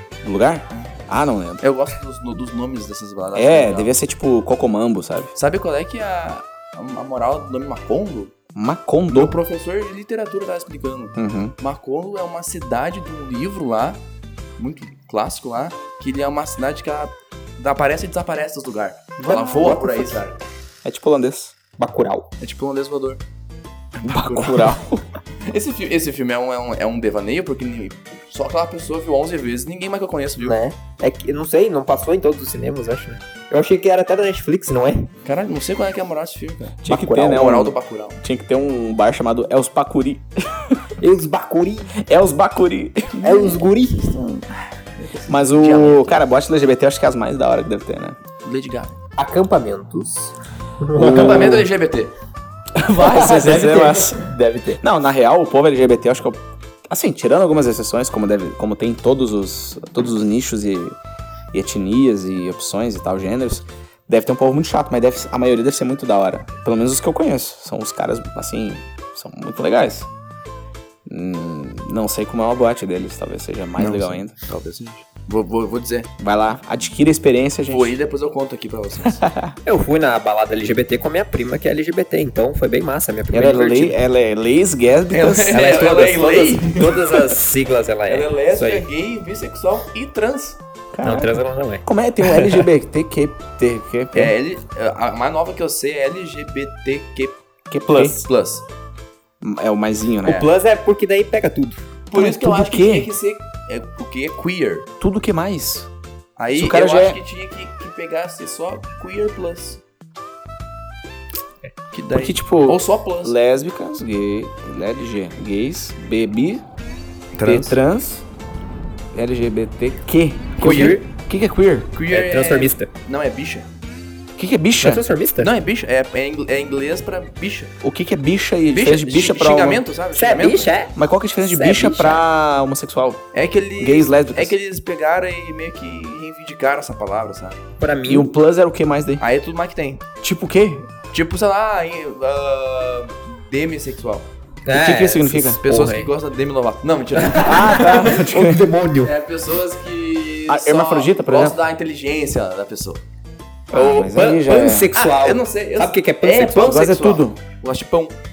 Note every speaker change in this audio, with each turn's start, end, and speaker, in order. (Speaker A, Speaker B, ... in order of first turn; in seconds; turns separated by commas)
Speaker A: 0.2-1.6, Speaker B: 1.6-3.9, Speaker A: 3.3-5.3, Speaker B: 5.3-8.3, Speaker A: 8.5-9.4, Speaker B: 9.1-14.0, Speaker A: 11.2-11.5, Speaker B: 14.6-20.4, Speaker A: 19.2-19.8, Speaker C: 19.3-20.1, Speaker A: 20.8-21.5, Speaker C: 21.8-22.3, Speaker B: 22.4-23.2, Speaker B: 23.9-24.8, Speaker A: 24.0-25.0, Speaker B: 25.4-30.6, Speaker C: 30.4-35.1, Speaker B: 35.2-38.2, Speaker A: 36.8-40.9, Speaker C: 41.0-42.0, Speaker A: 42.0-43.5, Speaker C: 43.2-44.1, Speaker B: 43.2-46.2, Speaker A: 45.3-48.2, Speaker B: 48.4-49.0, Speaker C: 49.2-51.6, Speaker A: 51.0-51.6, Speaker B: 51.0-52.1, Speaker A: 52.7-54.3, Speaker C: 53.0-54.8, Speaker A: 54.8-61.0, Speaker A: 61.5-70.1, Speaker A: 71.0-74.3, Speaker B: 73.8-76.1, Speaker A: 76.2-78.0, Speaker B: 77.7-79.2, Speaker A: 79.0-79.5, Speaker C: 79.6-84.0, Speaker A: 83.3-86.1, Speaker B: 85.1-87.3, Speaker C: 85.5-88.9, Speaker B: 88.1-90.6, Speaker A: 90.9-94.3, Speaker C: 91.0-92.6, Speaker B: 94.1-98.6, Speaker A: 97.7-98.2, Speaker A: 99.4-100.4, Speaker C: 100.2-101.8, Speaker B: 102.1-104.9, Speaker A: 102.1-103.1, Speaker A: 105.0-105.9, Speaker B: 106.4-109.8, Speaker A: 106.5-107.2, Speaker B: 111.9-113.4, Speaker A: 112.1-116.6, Speaker B: 117.3-117.8, Speaker A: 117.4-118.2, Speaker A: 119.1-121.9, Speaker B: 120.6-121.0, Speaker C: 120.6-121.0, Speaker B: 121.9-123.7, Speaker C: 122.1-122.9, Speaker A: 124.4-125.0, Speaker C: 124.8-125.5, Speaker B: 125.4-127.7, Speaker A: 127.8-129.8, Speaker B: 128.7-130.8, Speaker C: 130.1-132.2, Speaker A: 130.9-133.2, Speaker B: 133.3-137.6, Speaker A: 133.8-134.6, Speaker C: 137.8-138.3, Speaker A: 138.1-139.2, Speaker B: 139.2-140.1, Speaker A: 140.2-140.9, Speaker B: 141.1-144.3, Speaker C: 144.7-146.1, Speaker A: 144.7-145.6, Speaker B: 145.6-148.1, Speaker C: 147.2-149.1, Speaker A: 147.4-148.7, Speaker B: 149.0-153.0, Speaker A: 150.5-151.6, Speaker A: 153.7-154.9, Speaker C: 153.7-156.7, Speaker B: 154.9-158.2, Speaker A: 156.6-157.4